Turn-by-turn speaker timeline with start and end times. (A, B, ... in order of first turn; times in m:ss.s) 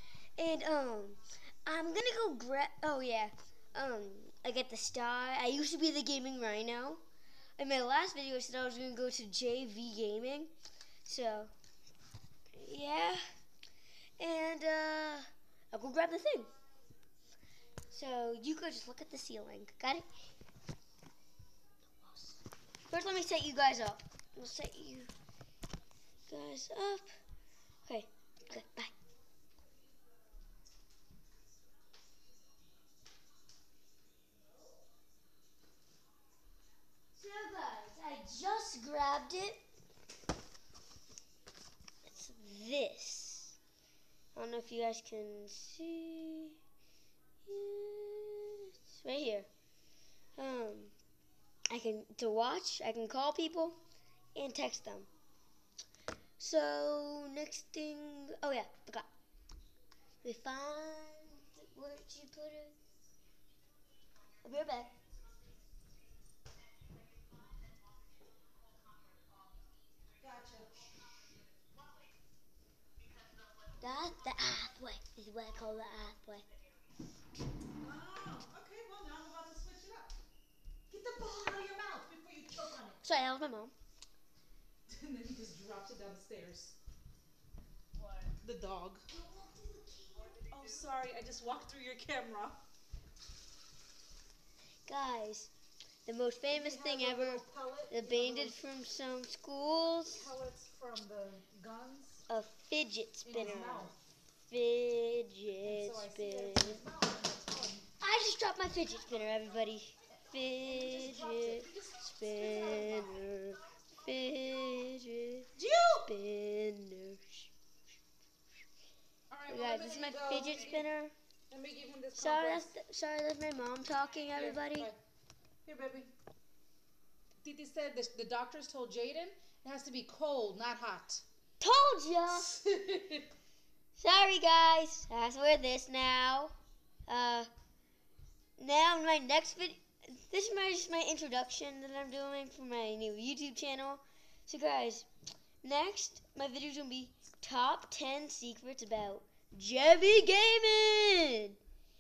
0:00.4-0:07.0 A
0:07.6-0:10.5 A
0:11.0-0:11.5 A
0:12.5-0:13.2 A
0:14.2-0:16.5 A
0:17.9-0:20.0 A
0:22.0-0:25.1 A
0:26.3-0:27.1 A
0:27.9-0:28.9 A
0:37.2-0:39.6 A
0:42.0-0:43.6 A
0:44.3-0:46.6 A
0:47.4-0:49.5 A
0:50.4-0:50.9 A
0:51.7-0:53.8 A
0:54.3-0:55.1 A
0:56.4-0:59.1 A
1:00.2-1:02.7 A
1:04.4-1:04.9 A
1:10.2-1:10.7 B
1:13.8-1:16.4 A
1:17.8-1:20.2 B
1:20.9-1:23.0 B
1:23.0-1:23.7 A
1:24.9-1:26.8 B
1:28.4-1:29.1 B
1:29.1-1:30.5 A
1:30.5-1:32.6 B
1:34.9-1:35.5 A
1:36.0-1:40.3 A
1:36.5-1:38.6 B
1:40.1-1:42.2 B
1:42.3-1:43.9 A
1:43.2-1:44.0 B
1:44.5-1:46.8 A
1:45.6-1:47.9 B
1:48.0-1:55.5 A
1:50.6-1:53.2 B
1:55.6-1:56.1 B
1:56.0-1:57.5 A
1:59.3-2:00.9 B
1:59.5-2:01.1 A
2:01.5-2:02.7 B
2:02.1-2:04.9 A
2:04.3-2:05.0 B
2:05.6-2:06.1 B
2:07.4-2:11.2 B
2:11.6-2:12.6 A
2:12.5-2:13.2 B
2:13.9-2:16.5 A
2:17.1-2:17.5 A
2:18.6-2:25.1 A
2:25.6-2:31.6 A